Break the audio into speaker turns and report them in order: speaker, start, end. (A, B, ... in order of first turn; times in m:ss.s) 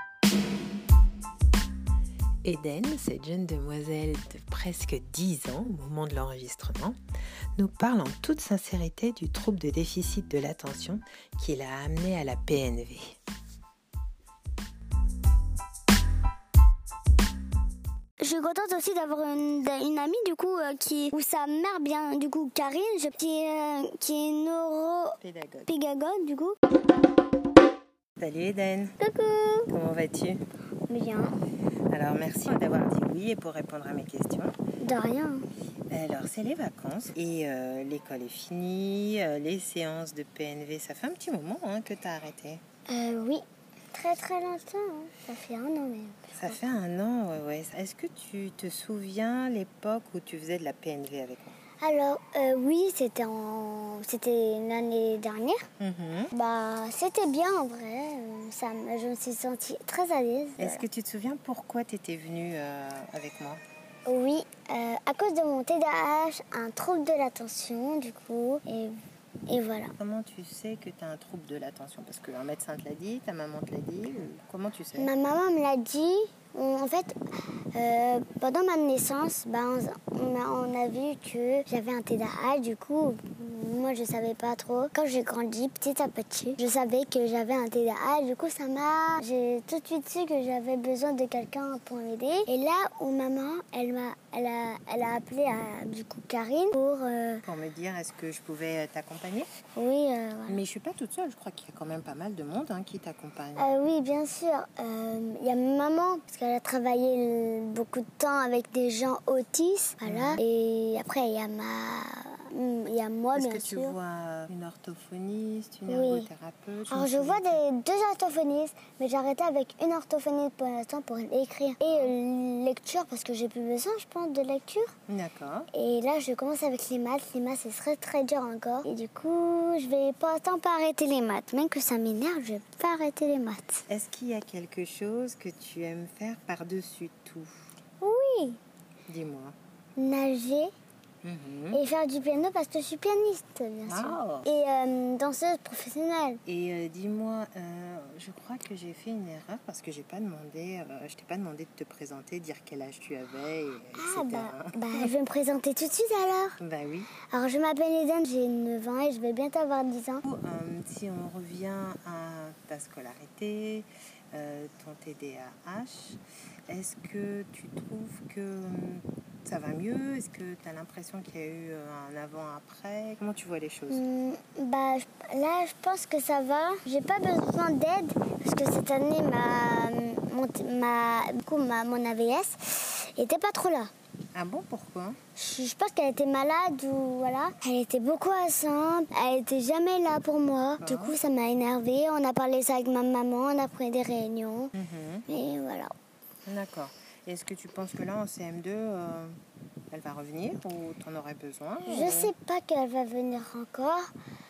0:02.4-0:07.0 A
0:07.6-0:13.2 A
0:18.2-0:26.6 B
0:25.2-0:25.7 A
0:28.2-0:29.0 A
0:29.0-0:29.7 B
0:29.7-0:30.4 A
0:30.9-0:31.3 B
0:31.9-0:34.6 A
0:34.8-0:35.4 B
0:35.9-0:42.6 A
0:42.9-0:46.5 B
0:46.3-0:51.6 A
0:51.8-0:55.7 B
0:55.8-0:56.3 A
0:56.3-1:00.8 B
1:00.6-1:03.6 A
1:04.0-1:09.9 B
1:10.0-1:15.1 A
1:15.0-1:17.2 B
1:17.7-1:37.4 B
1:37.4-1:39.5 A
1:39.7-1:40.6 B
1:40.5-1:43.8 A
1:43.6-1:54.0 B
1:50.0-1:50.4 A
1:53.3-1:57.6 A
1:55.9-1:56.3 B
1:56.9-2:04.9 B
2:01.8-2:02.1 A
2:05.1-2:05.7 A
2:05.7-2:13.8 B
2:13.9-2:17.6 A
2:18.0-2:18.6 B
2:19.1-2:19.6 A
2:20.0-2:20.7 B
2:21.2-2:21.8 A
2:21.7-2:26.4 B
2:23.9-2:24.5 A
2:26.4-2:35.1 A
2:33.9-2:36.6 B
2:36.6-2:37.1 A
2:37.3-2:40.2 B
2:40.2-2:54.0 A
2:53.9-3:03.9 B
3:04.3-3:05.2 A
3:05.4-3:14.7 B
3:10.8-3:11.2 A
3:14.7-3:15.2 A
3:15.3-3:15.9 B
3:16.4-3:19.4 A
3:19.9-3:22.3 A
3:21.8-3:24.1 B